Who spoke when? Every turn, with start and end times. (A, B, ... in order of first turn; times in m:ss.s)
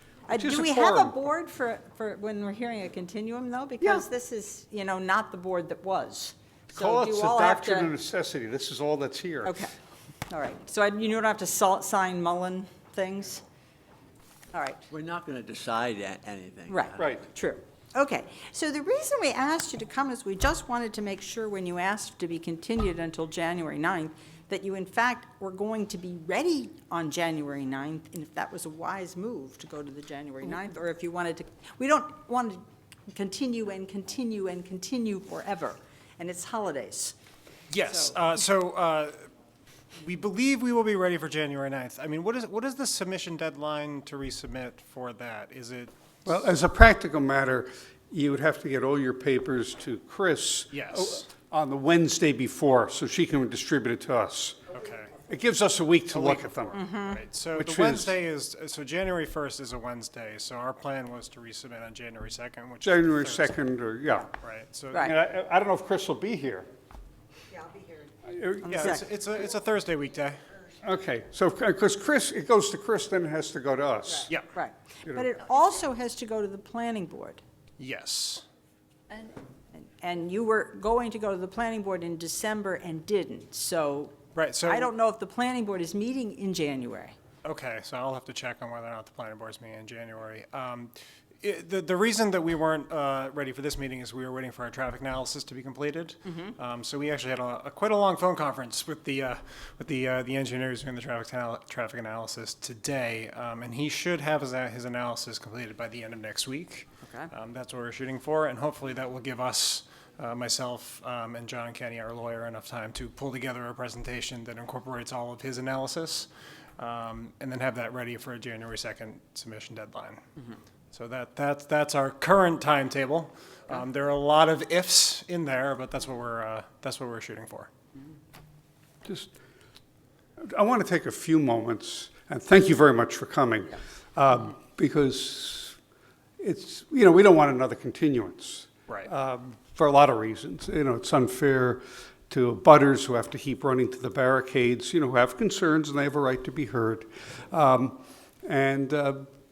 0:00.3-0:07.9 A
0:00.3-0:01.2 B
0:06.7-0:09.6 B
0:09.4-0:09.7 A
0:10.3-0:13.4 A
0:14.5-0:14.9 A
0:14.9-0:17.1 C
0:16.7-0:37.2 A
0:37.7-0:39.1 D
0:37.8-0:38.1 A
0:40.0-0:45.9 D
0:46.3-0:54.6 B
0:50.7-0:51.3 D
0:54.7-0:55.1 D
0:55.3-0:56.8 B
0:56.1-1:03.5 D
0:56.8-0:57.2 A
0:57.5-0:58.1 B
1:02.8-1:04.3 B
1:04.4-1:05.1 D
1:05.0-1:06.7 B
1:08.3-1:08.9 B
1:08.6-1:09.0 A
1:08.7-1:10.4 D
1:10.8-1:14.3 B
1:14.2-1:17.4 A
1:17.8-1:18.4 D
1:19.1-1:24.2 A
1:24.4-1:24.9 D
1:24.7-1:27.2 A
1:27.4-2:00.2 D
1:36.3-1:36.6 A
1:47.0-1:47.3 A
2:00.9-2:07.7 D
2:09.1-2:09.3 B
2:10.4-2:15.8 B
2:16.4-2:29.2 B